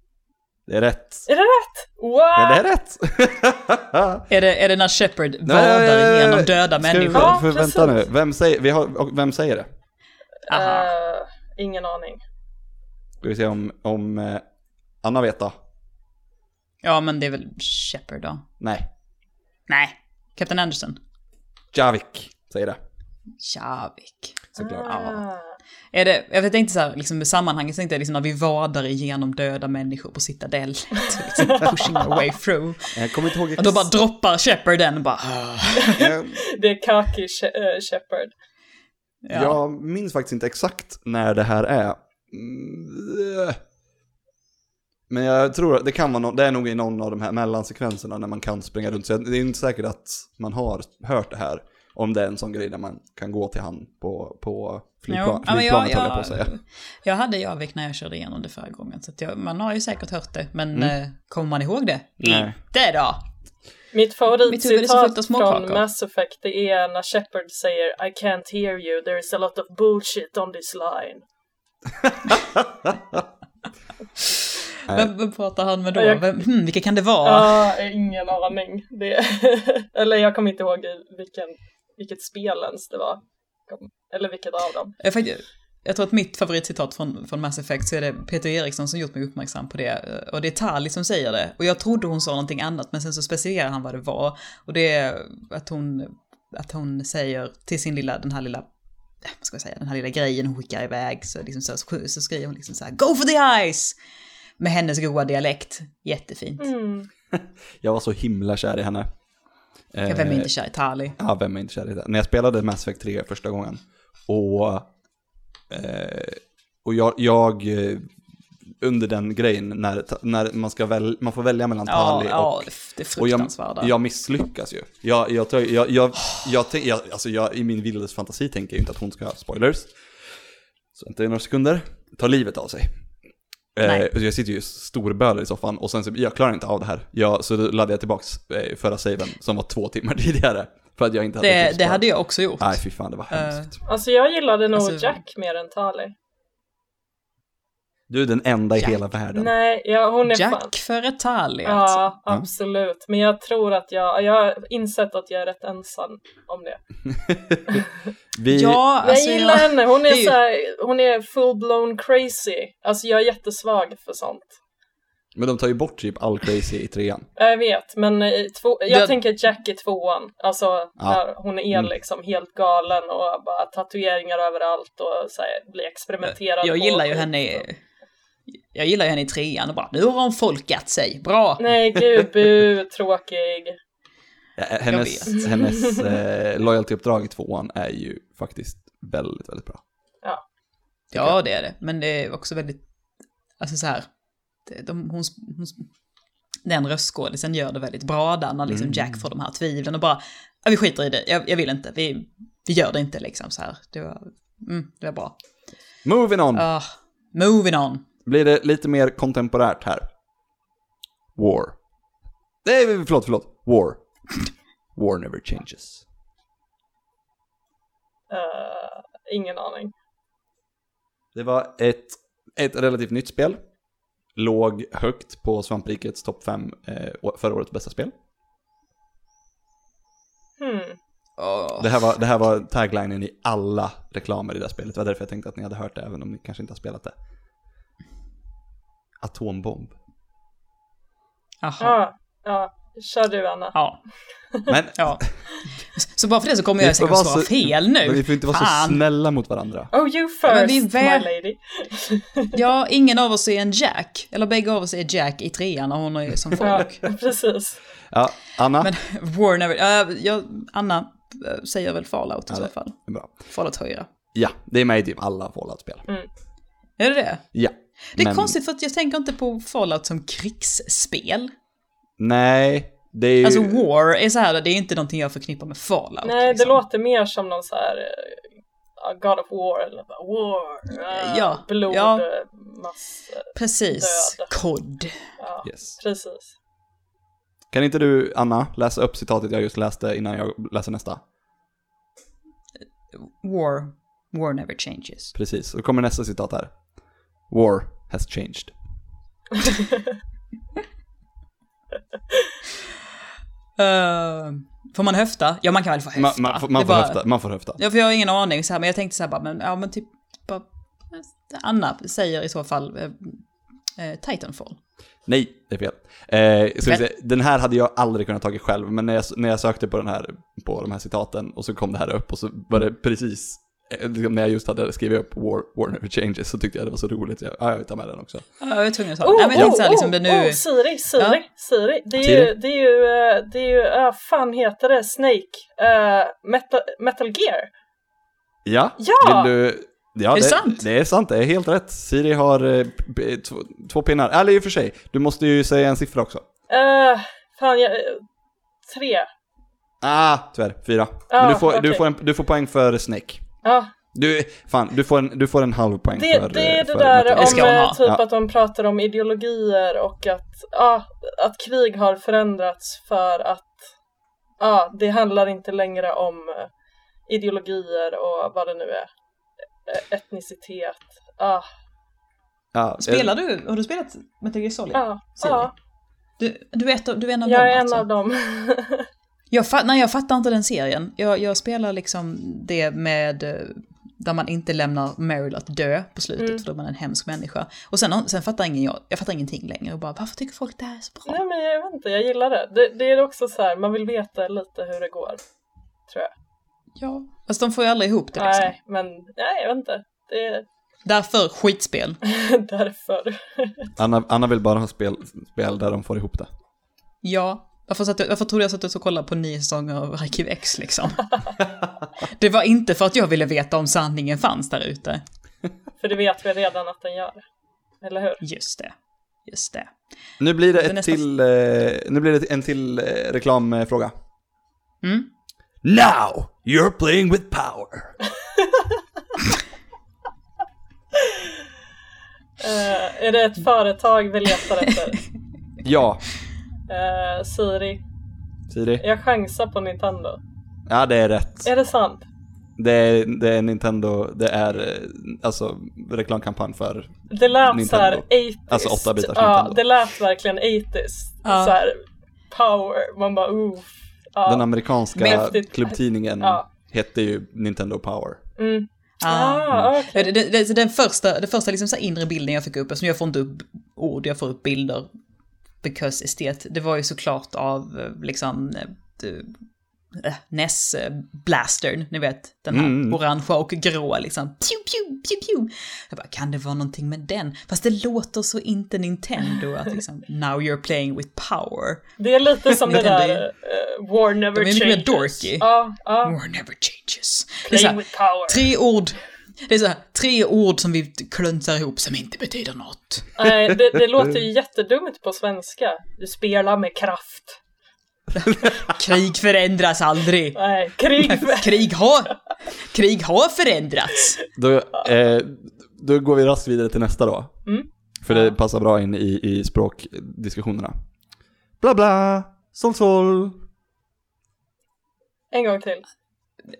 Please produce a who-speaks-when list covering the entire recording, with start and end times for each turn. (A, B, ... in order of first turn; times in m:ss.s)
0:00.7-0:01.2 A
0:01.3-0:02.6 B
0:02.4-0:04.2 A
0:04.3-0:07.4 C
0:05.4-0:09.7 A
0:07.1-0:08.0 B
0:10.5-0:10.9 C
0:10.5-0:12.2 B
0:13.2-0:14.4 A
0:15.0-0:15.6 A
0:16.8-0:18.4 C
0:18.6-0:18.9 A
0:19.7-0:21.0 C
0:21.7-0:22.8 A
0:23.4-0:25.2 C
0:24.6-0:25.0 A
0:24.6-0:25.4 B
0:25.9-0:32.9 C
0:32.9-0:33.9 A
0:33.6-0:36.0 C
0:35.8-0:38.3 B
0:36.0-0:36.4 A
0:39.2-0:39.6 C
0:39.3-0:43.6 A
0:45.1-0:56.5 A
0:55.1-1:03.2 C
1:02.2-1:02.5 A
1:03.9-1:11.2 B
1:04.5-1:05.8 C
1:12.0-1:13.0 A
1:14.9-1:17.5 C
1:15.9-1:16.4 B
1:17.2-1:24.9 B
1:25.0-1:38.6 C
1:39.2-1:44.0 C
1:44.6-1:46.7 C
1:46.6-1:47.1 B
1:47.3-1:49.1 A
1:49.9-1:50.5 A
1:50.0-1:51.2 C
1:51.2-1:54.9 A
1:55.7-1:58.1 A
1:58.8-2:09.9 A
2:01.8-2:03.9 C
2:10.9-2:12.9 A
2:13.7-2:22.0 A
2:21.4-2:23.7 C
2:22.6-2:23.8 A
2:23.8-2:26.1 B
2:24.7-2:25.2 C
2:28.1-2:29.5 A
2:29.3-2:30.7 B
2:30.2-2:32.1 C
2:31.6-2:36.8 B
2:37.1-2:37.7 A
2:38.3-2:38.8 A
2:38.5-2:40.4 C
2:39.0-2:44.5 B
2:45.3-2:47.3 A
2:47.4-2:57.6 B
2:48.9-2:49.2 C
2:56.2-2:57.8 C
2:58.7-3:01.6 C
3:01.6-3:03.8 B
3:04.6-3:09.8 A
3:04.9-3:05.4 C
3:05.4-3:06.1 B
3:11.1-3:11.4 A
3:11.1-3:12.8 C
3:13.6-3:14.1 C
3:14.6-3:15.9 C
3:16.6-3:25.3 C
3:18.7-3:19.2 A
3:26.0-3:26.7 A
3:26.5-3:28.0 C
3:28.2-3:30.1 A
3:31.4-3:31.8 A
3:32.6-3:34.0 A
3:34.9-3:36.0 A
3:38.3-3:39.9 B
3:41.3-3:43.6 A
3:44.4-3:48.1 A
3:50.6-3:51.0 B
3:51.4-3:52.1 C
3:51.8-3:57.1 A
3:59.2-3:59.9 A
4:01.6-4:02.0 C
4:01.8-4:03.8 B
4:03.7-4:04.0 C
4:04.7-4:05.3 A
4:05.0-4:05.2 C
4:05.9-4:09.0 C
4:06.8-4:09.9 A
4:09.9-4:12.5 B
4:10.4-4:11.3 C
4:12.5-4:17.0 C
4:16.6-4:17.8 B
4:18.1-4:18.9 A
4:18.8-4:22.9 C
4:22.5-4:23.3 A
4:23.5-4:24.1 C
4:24.3-4:26.0 A
4:27.0-4:27.4 C
4:27.5-4:28.5 A
4:28.1-4:31.5 C
4:32.2-4:33.8 A
4:33.4-4:36.8 C
4:36.2-4:38.4 B
4:39.0-4:44.6 B
4:40.9-4:42.2 C
4:43.5-4:45.2 C
4:45.4-4:46.5 B
4:45.6-4:45.9 A
4:47.7-4:51.2 A
4:53.1-4:55.3 C
4:55.3-4:56.7 A
4:57.5-4:58.7 A
5:03.8-5:07.2 C
5:06.1-5:07.8 A
5:07.8-5:13.4 C
5:14.0-5:14.8 C
5:15.2-5:28.4 A
5:28.6-5:30.6 C
5:29.2-5:37.7 B
5:29.5-5:29.8 A
5:32.2-5:32.5 A
5:38.6-5:46.4 A
5:39.0-5:39.5 B
5:40.3-5:40.8 C
5:46.7-5:48.2 B
5:48.8-5:49.3 B
5:50.0-5:53.4 A
5:51.3-5:52.0 B
5:53.6-5:53.9 B
5:54.1-5:58.2 A
5:56.1-6:03.8 B
5:57.4-5:58.0 C
6:04.6-6:06.7 B
6:07.3-6:09.1 B
6:09.9-6:11.6 B
6:12.7-6:13.3 A
6:13.0-6:15.7 C
6:14.9-6:15.7 B
6:16.4-6:18.0 C
6:17.4-6:19.1 B
6:19.5-6:31.4 C
6:26.4-6:26.6 B
6:31.2-6:35.4 B
6:37.0-6:38.7 C
6:38.4-6:40.6 B
6:41.0-6:42.2 C
6:42.2-6:43.9 B
6:44.0-6:46.5 A
6:47.2-6:51.3 C
6:52.2-6:55.2 C
6:56.0-6:57.4 B
6:58.0-6:58.4 B
6:58.4-6:58.9 C
6:59.4-6:59.9 C
7:00.4-7:04.1 A
7:00.7-7:01.2 C
7:05.0-7:05.3 C
7:05.8-7:08.2 A
7:12.6-7:15.2 B
7:15.8-7:16.2 A
7:16.9-7:18.0 B
7:18.7-7:19.0 A
7:19.0-7:20.4 B
7:20.9-7:21.7 A
7:21.6-7:22.2 B
7:22.8-7:29.8 A
7:27.3-7:36.6 B
7:31.4-7:31.8 C
7:34.4-7:38.4 A
7:35.2-7:35.5 C
7:38.6-7:40.3 B
7:39.2-7:45.1 C
7:45.8-7:49.5 C
7:50.1-8:02.0 C
7:52.7-7:53.2 A
8:02.2-8:06.4 B
8:02.8-8:03.4 C
8:04.5-8:05.6 C
8:06.2-8:13.2 C
8:07.7-8:08.7 B
8:13.4-8:17.6 B
8:13.7-8:14.3 A
8:18.5-8:18.7 A
8:18.9-8:20.6 C
8:20.5-8:21.9 B
8:21.2-8:24.4 C
8:24.6-8:27.5 A
8:28.2-8:31.0 A
8:31.8-8:33.6 A
8:35.5-8:36.0 B